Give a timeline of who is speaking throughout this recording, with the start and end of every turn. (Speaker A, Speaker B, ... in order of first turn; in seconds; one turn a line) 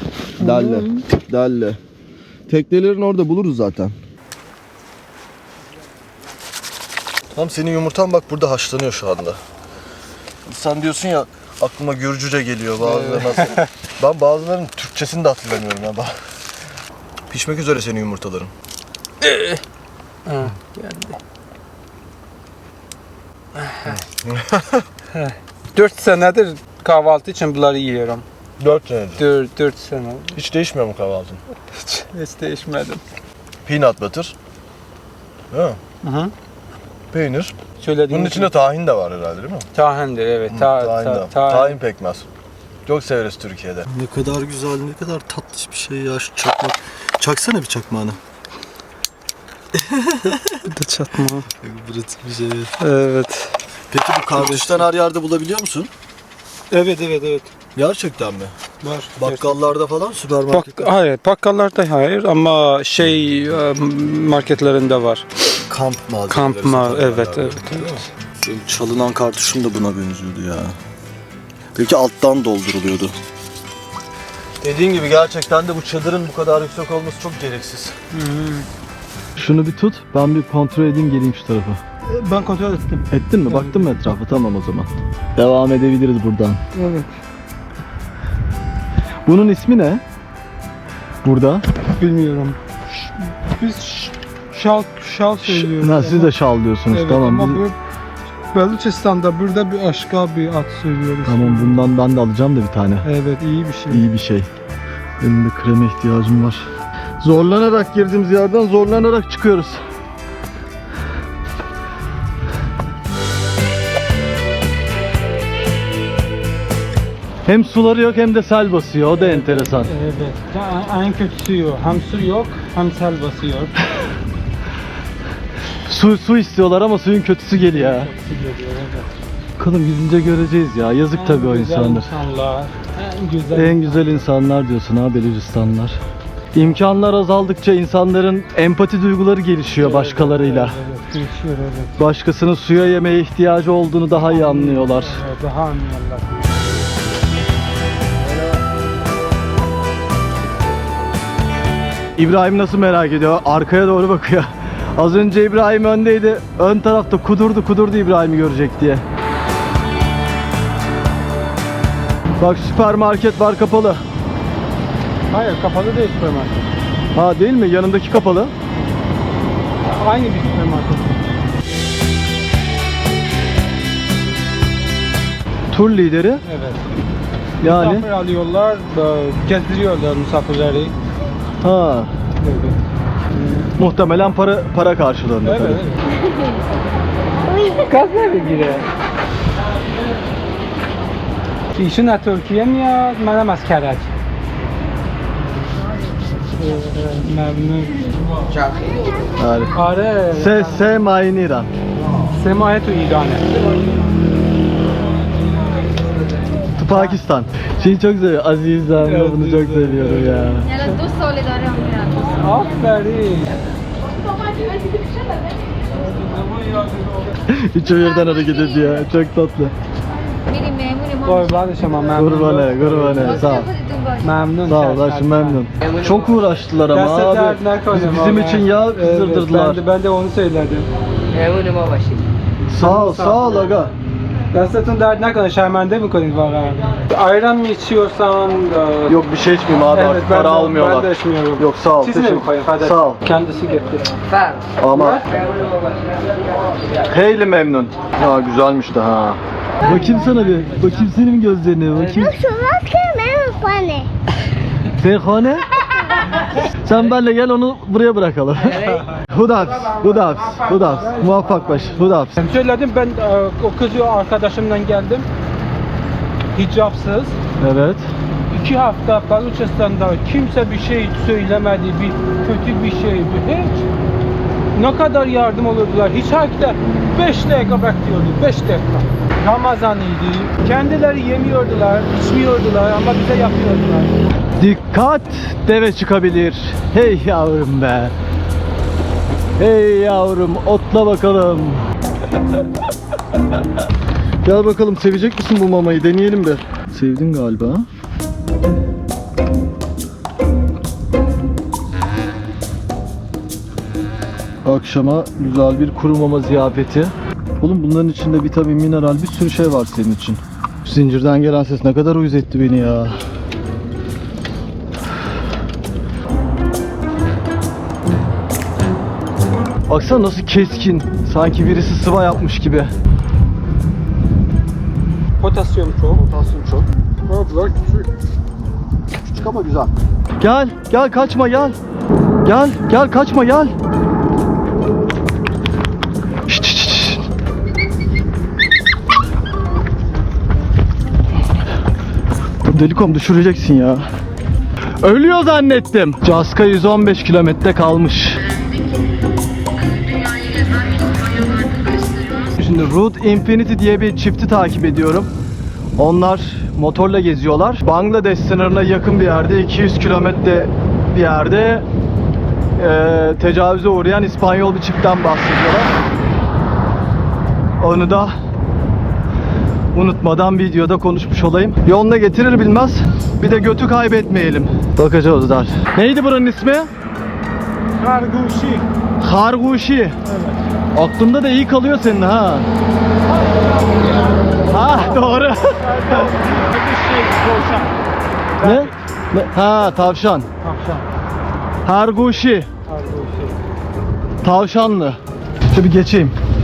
Speaker A: 0.4-1.8
Speaker A: 2.5-3.9
Speaker A: 7.3-9.4
Speaker A: 10.4-16.1
Speaker B: 12.9-13.6
Speaker A: 17.3-18.5
Speaker B: 19.2-19.6
Speaker B: 20.2-21.2
Speaker B: 23.7-23.9
Speaker A: 23.9-24.8
Speaker B: 25.1-28.2
Speaker A: 28.6-29.2
Speaker B: 29.2-30.4
Speaker A: 30.3-31.4
Speaker B: 31.8-33.0
Speaker A: 33.6-34.3
Speaker A: 35.5-35.8
Speaker B: 36.0-36.3
Speaker A: 37.1-37.5
Speaker B: 37.8-38.5
Speaker A: 38.1-39.7
Speaker B: 39.7-41.8
Speaker A: 40.5-42.3
Speaker A: 42.8-48.2
Speaker A: 49.7-50.6
Speaker B: 50.2-51.5
Speaker A: 51.6-52.7
Speaker B: 52.8-53.6
Speaker A: 53.9-55.9
Speaker B: 54.3-54.9
Speaker B: 56.7-57.5
Speaker A: 57.7-58.5
Speaker B: 58.8-59.6
Speaker A: 59.2-60.9
Speaker B: 60.5-65.2
Speaker A: 65.7-70.8
Speaker B: 66.3-68.1
Speaker A: 71.7-73.2
Speaker A: 74.6-78.0
Speaker B: 78.1-78.7
Speaker A: 79.3-81.8
Speaker B: 82.1-84.0
Speaker A: 83.1-86.6
Speaker B: 86.7-87.1
Speaker A: 89.2-90.0
Speaker A: 91.2-91.6
Speaker B: 92.0-92.6
Speaker B: 93.5-96.3
Speaker A: 95.4-97.6
Speaker B: 96.9-97.8
Speaker B: 98.5-101.9
Speaker A: 101.2-103.0
Speaker B: 103.0-104.1
Speaker A: 103.9-104.5
Speaker A: 105.2-106.7
Speaker A: 107.2-109.8
Speaker A: 117.5-119.9
Speaker B: 119.2-123.8
Speaker A: 125.9-128.1
Speaker B: 127.5-129.1
Speaker A: 129.6-132.1
Speaker B: 131.1-134.2
Speaker A: 133.5-136.0
Speaker A: 136.5-140.8
Speaker B: 139.8-141.9
Speaker A: 142.0-145.2
Speaker B: 144.1-146.5
Speaker A: 152.2-159.0
Speaker A: 162.4-164.0
Speaker B: 165.3-166.7
Speaker A: 167.1-168.5
Speaker B: 169.8-171.4
Speaker A: 175.7-176.4
Speaker B: 176.4-176.9
Speaker B: 177.6-180.9
Speaker A: 177.6-178.1
Speaker A: 181.6-182.1
Speaker B: 182.4-182.8
Speaker B: 183.3-183.7
Speaker A: 183.8-185.8
Speaker B: 185.4-186.1
Speaker B: 187.8-188.9
Speaker B: 191.8-194.2
Speaker B: 196.6-198.1
Speaker A: 199.4-199.7
Speaker B: 199.7-200.9
Speaker A: 200.3-201.7
Speaker B: 202.3-203.8
Speaker B: 205.6-206.0
Speaker A: 206.8-210.7
Speaker B: 206.9-207.2
Speaker B: 209.0-211.0
Speaker C: 210.6-212.7
Speaker B: 212.2-213.5
Speaker B: 215.9-217.3
Speaker A: 217.5-219.7
Speaker C: 217.9-219.1
Speaker C: 220.2-222.1
Speaker B: 221.2-223.6
Speaker A: 222.2-223.7
Speaker C: 223.2-224.4
Speaker B: 224.2-225.6
Speaker A: 224.6-229.8
Speaker D: 225.8-226.3
Speaker B: 226.9-230.9
Speaker D: 231.3-232.3
Speaker A: 232.7-233.9
Speaker B: 232.8-233.6
Speaker B: 234.5-239.2
Speaker A: 239.1-243.2
Speaker B: 239.9-244.1
Speaker D: 244.3-244.7
Speaker A: 244.8-245.2
Speaker B: 244.9-245.2
Speaker D: 245.3-246.4
Speaker A: 247.1-252.3
Speaker E: 252.1-254.1
Speaker A: 255.0-255.7
Speaker E: 255.9-256.2
Speaker A: 256.8-262.4
Speaker D: 258.6-259.1
Speaker B: 260.9-261.8
Speaker B: 262.3-265.3
Speaker B: 266.5-267.4
Speaker A: 267.6-268.1
Speaker B: 268.5-273.9
Speaker B: 274.7-284.2
Speaker A: 284.6-288.1
Speaker A: 289.6-291.8
Speaker A: 294.4-297.9
Speaker A: 304.6-313.2
Speaker A: 319.9-322.9
Speaker B: 325.4-326.2
Speaker A: 326.1-326.9
Speaker B: 327.3-328.1
Speaker B: 329.4-329.9
Speaker A: 330.4-331.8
Speaker A: 332.4-333.7
Speaker A: 336.4-337.2
Speaker A: 342.6-344.0
Speaker A: 345.0-348.4
Speaker C: 351.9-352.4
Speaker A: 352.6-355.3
Speaker A: 356.0-361.9
Speaker A: 362.8-365.9
Speaker A: 367.8-368.4
Speaker A: 369.9-376.9
Speaker B: 378.0-378.8
Speaker A: 379.2-380.2
Speaker B: 380.2-380.6
Speaker A: 380.9-382.7
Speaker B: 383.3-388.0
Speaker A: 384.7-386.4
Speaker B: 388.6-389.0
Speaker A: 388.6-390.5
Speaker B: 390.6-391.1
Speaker A: 391.8-392.7
Speaker B: 392.9-393.6
Speaker A: 394.4-395.2
Speaker A: 395.7-396.4